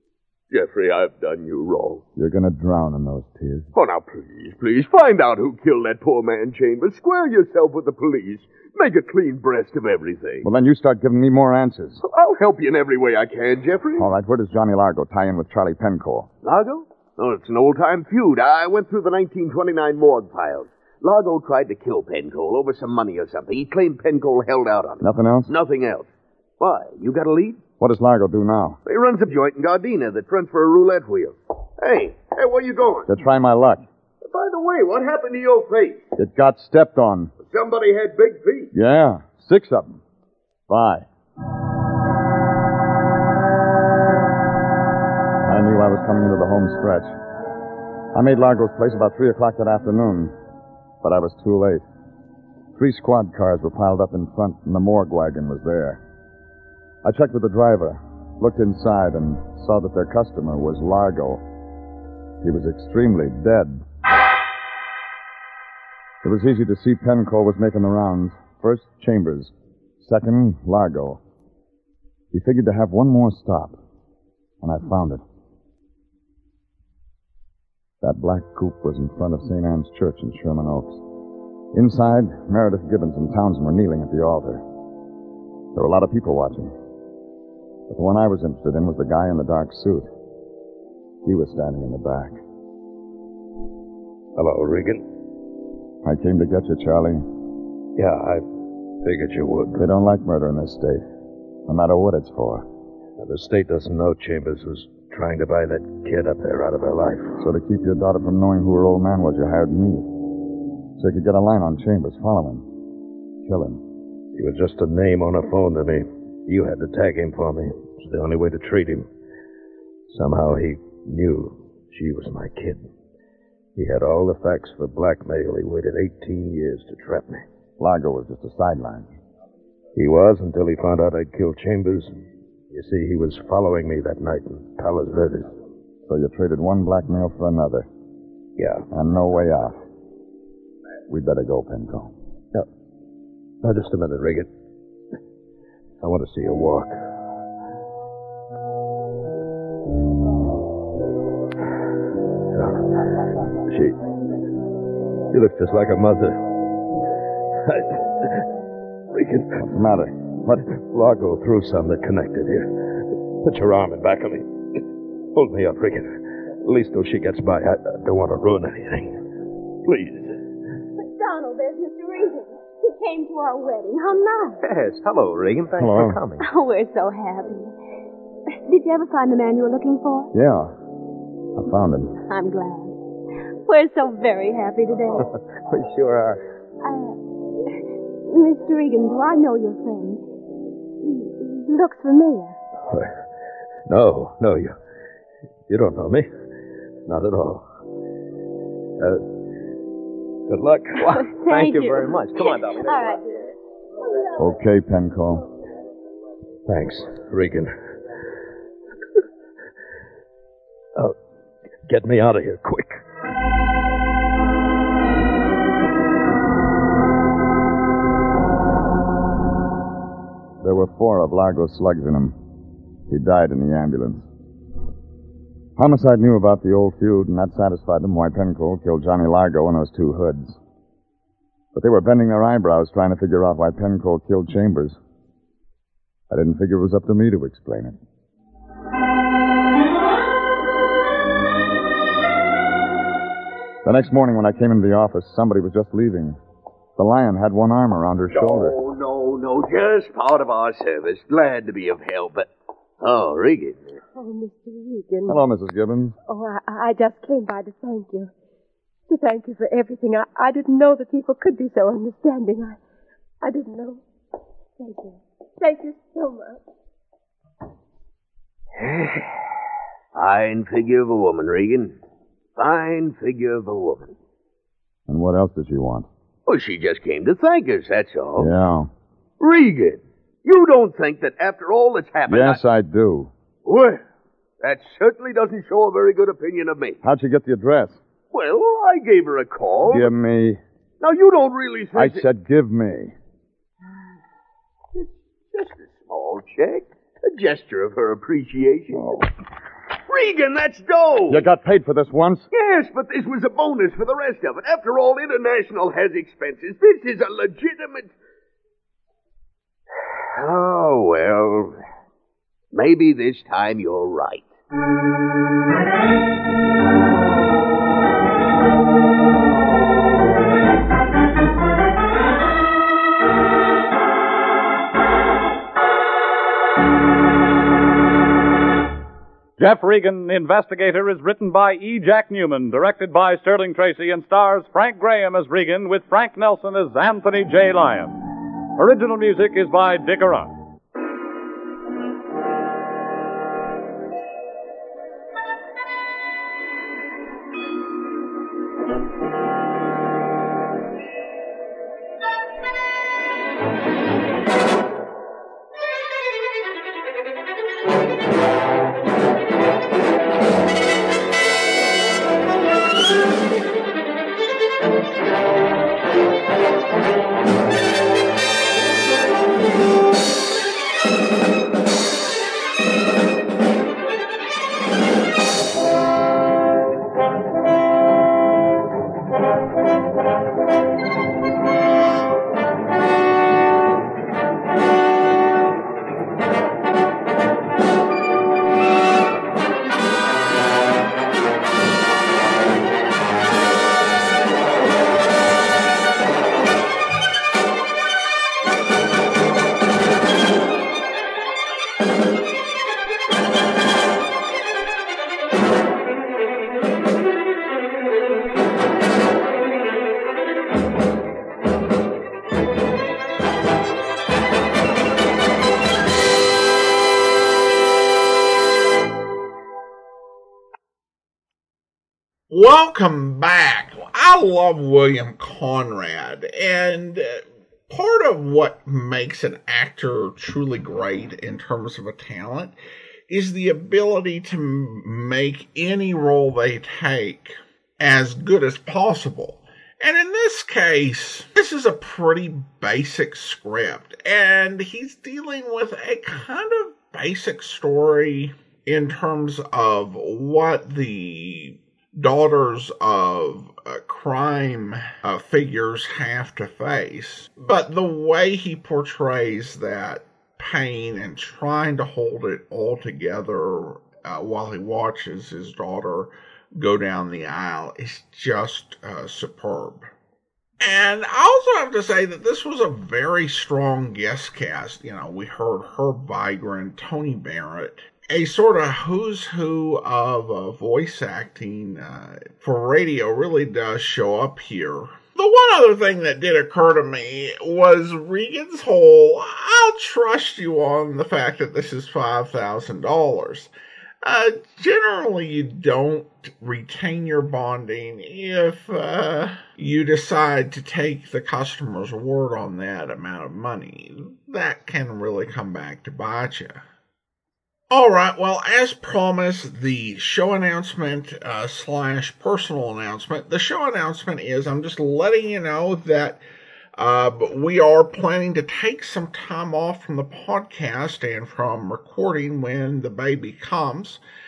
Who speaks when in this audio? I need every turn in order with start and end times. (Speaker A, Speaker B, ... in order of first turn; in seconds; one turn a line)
Speaker A: 0.5-2.0
Speaker B: 2.1-3.7
Speaker A: 3.7-10.4
Speaker B: 10.4-12.0
Speaker A: 12.0-14.1
Speaker B: 14.0-16.3
Speaker A: 16.4-27.6
Speaker B: 25.0-25.5
Speaker B: 27.8-28.8
Speaker A: 28.8-33.1
Speaker B: 33.1-33.9
Speaker A: 34.2-36.1
Speaker B: 36.1-37.3
Speaker A: 37.4-38.7
Speaker B: 38.7-40.0
Speaker B: 40.7-41.1
Speaker B: 45.4-47.1
Speaker B: 48.1-50.3
Speaker B: 51.0-51.8
Speaker B: 52.7-56.0
Speaker B: 57.0-61.4
Speaker B: 62.4-63.8
Speaker B: 66.2-71.2
Speaker B: 72.3-73.8
Speaker B: 74.6-75.2
Speaker B: 78.0-81.0
Speaker B: 81.7-84.6
Speaker B: 85.7-86.7
Speaker B: 87.9-90.1
Speaker B: 91.2-92.4
Speaker C: 94.4-95.0
Speaker B: 96.0-97.2
Speaker C: 98.0-98.4
Speaker C: 99.0-99.8
Speaker B: 99.8-101.0
Speaker B: 101.7-102.7
Speaker C: 103.2-107.4
Speaker B: 107.4-110.1
Speaker B: 111.0-112.7
Speaker B: 113.4-113.8
Speaker C: 114.3-119.1
Speaker C: 120.1-122.8
Speaker C: 123.8-127.4
Speaker B: 127.8-129.1
Speaker C: 129.9-132.1
Speaker C: 132.7-135.5
Speaker B: 136.1-137.9
Speaker C: 138.6-138.8
Speaker B: 138.9-139.8
Speaker B: 141.1-142.1
Speaker C: 143.6-144.5
Speaker C: 146.0-147.0
Speaker C: 152.6-152.8
Speaker C: 153.7-153.9
Speaker C: 155.3-156.4
Speaker C: 157.7-158.0
Speaker C: 159.1-159.5
Speaker B: 159.5-160.6
Speaker C: 160.7-162.8
Speaker C: 163.4-164.5
Speaker C: 165.3-166.1
Speaker C: 166.6-169.2
Speaker C: 169.8-170.4
Speaker D: 171.0-174.6
Speaker E: 174.6-176.4
Speaker B: 175.8-176.2
Speaker D: 176.4-177.7
Speaker D: 178.7-180.3
Speaker B: 180.3-180.7
Speaker B: 181.6-182.1
Speaker D: 182.3-182.9
Speaker D: 183.7-185.3
Speaker E: 185.3-186.4
Speaker D: 186.8-190.2
Speaker D: 191.0-192.6
Speaker C: 193.9-194.7
Speaker C: 195.7-196.3
Speaker C: 197.1-197.6
Speaker C: 200.5-201.1
Speaker E: 201.0-203.1
Speaker D: 201.1-203.2
Speaker B: 204.3-205.4
Speaker C: 206.7-207.7
Speaker C: 211.9-213.0
Speaker B: 220.6-222.4
Speaker B: 223.1-224.3
Speaker B: 225.8-230.6
Speaker B: 231.7-235.0
Speaker B: 236.3-238.0
Speaker B: 243.8-246.4
Speaker B: 247.0-248.8
Speaker A: 248.3-252.5
Speaker A: 253.0-254.0
Speaker F: 254.1-255.4
Speaker B: 255.2-256.1
Speaker F: 256.2-258.3
Speaker F: 259.1-262.8
Speaker F: 263.4-264.0
Speaker F: 264.8-266.6
Speaker A: 268.8-269.3
Speaker A: 270.1-272.0
Speaker A: 272.6-274.1
Speaker B: 275.1-276.1
Speaker A: 276.4-278.5
Speaker B: 278.4-278.9
Speaker A: 279.4-282.6
Speaker B: 282.3-283.3
Speaker A: 283.6-284.0
Speaker A: 284.6-287.0
Speaker B: 287.0-288.0
Speaker A: 288.3-290.1
Speaker B: 289.9-290.6
Speaker A: 291.0-292.2
Speaker B: 291.9-293.1
Speaker A: 294.9-299.1
Speaker A: 300.1-301.4
Speaker B: 301.3-302.5
Speaker A: 302.5-308.1
Speaker A: 310.3-311.8
Speaker A: 312.7-314.5
Speaker G: 329.6-338.2
Speaker G: 338.8-340.5
Speaker H: 422.5-432.7
Speaker H: 433.3-470.1
Speaker H: 470.8-493.7
Speaker H: 494.2-506.8
Speaker H: 507.9-516.4
Speaker H: 517.0-524.2